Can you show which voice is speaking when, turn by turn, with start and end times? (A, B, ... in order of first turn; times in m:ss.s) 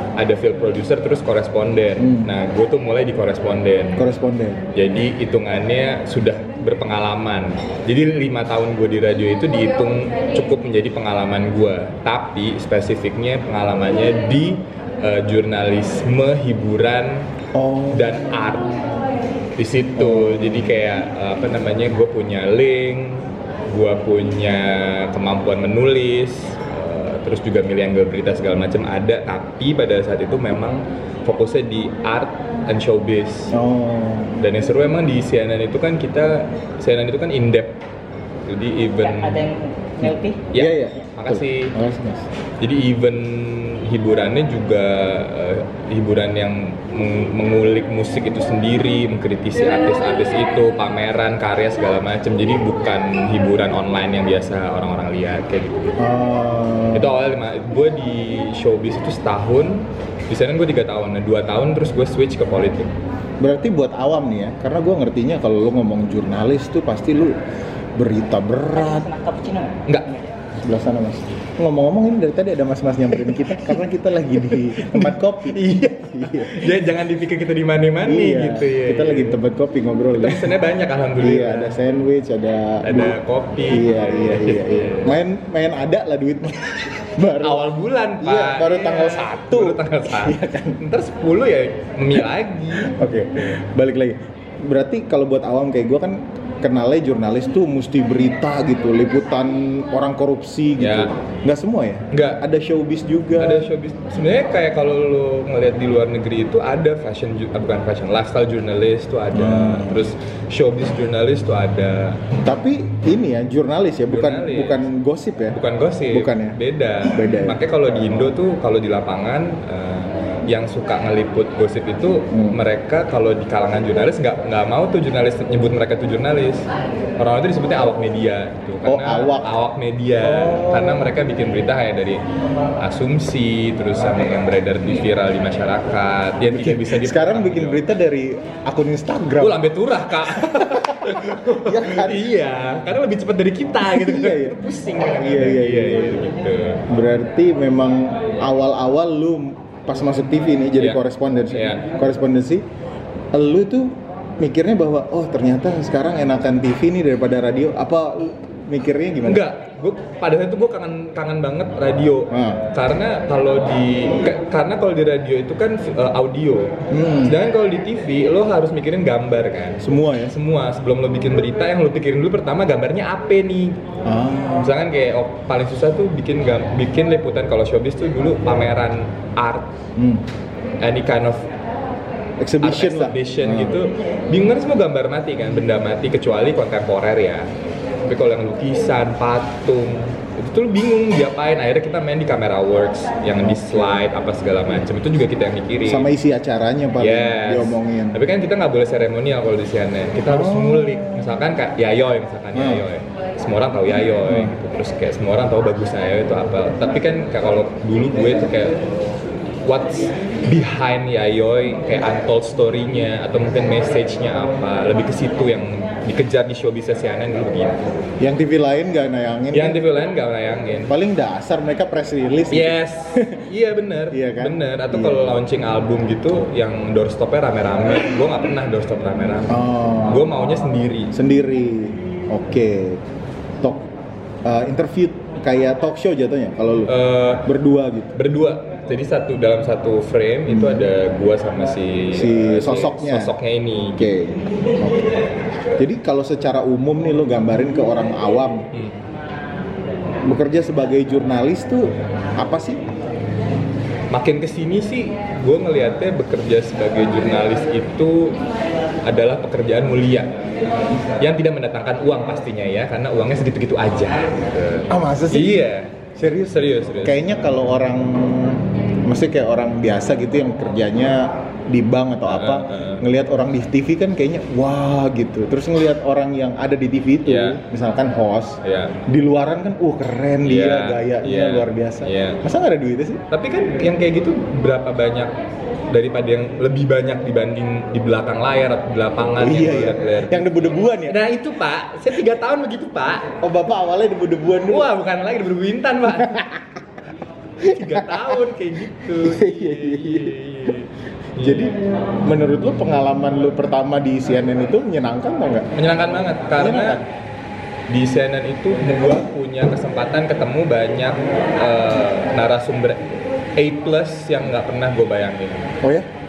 0:00.2-0:04.0 A
0:02.0-0:02.3 B
0:04.0-0:04.6 B
0:04.7-0:17.3 A
0:17.5-0:18.3 B
0:17.9-0:18.8 A
0:19.6-0:33.5 A
0:19.9-0:20.8 B
0:33.5-0:34.4 B
0:34.4-0:37.8 A
0:38.4-0:39.4 A
0:39.0-0:40.4 C
0:40.5-0:41.8 A
0:40.5-0:42.3 B
0:42.6-0:56.0 A
0:56.0-0:57.1 B
0:56.9-1:02.9 A
1:03.4-1:07.4 B
1:08.0-1:09.1 B
1:08.7-1:10.2 C
1:10.6-1:16.8 B
1:14.4-1:19.4 A
1:18.0-1:20.5 B
1:20.1-1:21.8 A
1:21.2-1:23.2 B
1:22.8-1:25.2 A
1:23.7-1:27.7 B
1:27.4-1:33.4 A
1:28.2-1:30.8 B
1:32.7-1:43.7 B
1:40.8-1:41.1 A
1:42.1-1:42.4 A
1:43.4-1:52.2 A
1:49.3-1:50.0 B
1:52.4-1:55.6 B
1:54.1-1:54.8 A
1:55.5-2:12.2 A
1:56.1-1:57.6 B
2:02.3-2:02.6 B
2:08.8-2:09.5 B
2:10.2-2:11.1 B
2:12.8-2:17.8 A
2:16.5-2:19.6 B
2:19.4-2:26.8 A
2:20.2-2:22.3 B
2:23.8-2:26.2 B
2:26.9-2:32.6 B
2:30.8-2:31.9 A
2:33.3-2:39.4 B
2:39.2-2:53.8 A
2:42.3-2:42.6 B
2:46.9-2:47.4 B
2:49.8-2:50.3 B
2:54.0-2:54.7 B
2:54.5-2:59.7 A
3:00.0-3:00.2 B
3:00.8-3:01.5 A
3:02.4-3:03.8 B
3:02.6-3:07.5 A
3:08.0-3:16.1 A
3:13.4-3:14.0 B
3:15.8-3:18.2 B
3:17.0-3:28.8 A
3:20.3-3:21.3 B
3:22.5-3:22.8 B
3:24.2-3:24.5 B
3:29.6-3:38.1 A
3:38.2-3:39.8 B
3:39.5-3:40.9 A
3:40.9-3:43.4 B
3:42.5-3:51.2 A
3:44.1-3:45.3 B
3:49.5-3:50.3 B
3:51.1-3:53.0 B
3:53.6-3:53.8 B
3:54.4-3:58.1 B
3:56.8-3:57.5 A
3:58.1-4:04.1 A
4:00.5-4:00.9 B
4:02.1-4:03.4 B
4:04.0-4:05.0 B
4:05.8-4:08.7 B
4:10.2-4:12.8 B
4:14.1-4:18.4 A
4:19.0-4:20.4 A
4:21.2-4:25.9 A
4:24.9-4:43.2 B
4:26.5-4:27.2 A
4:32.3-4:33.0 A
4:37.2-4:37.6 A
4:38.6-4:39.0 A
4:40.4-4:42.4 A
4:43.3-4:45.3 A
4:45.9-4:53.3 A
4:49.4-4:51.2 B
4:53.4-4:54.9 B
4:54.6-4:56.4 A
4:56.2-4:56.6 B
4:57.6-5:01.7 A
4:57.6-4:58.4 B
4:59.1-5:00.8 B
5:01.4-5:05.7 B
5:05.7-5:07.0 A
5:06.6-5:07.0 B
5:07.9-5:13.0 A
5:13.6-5:15.7 A
5:15.8-5:16.1 B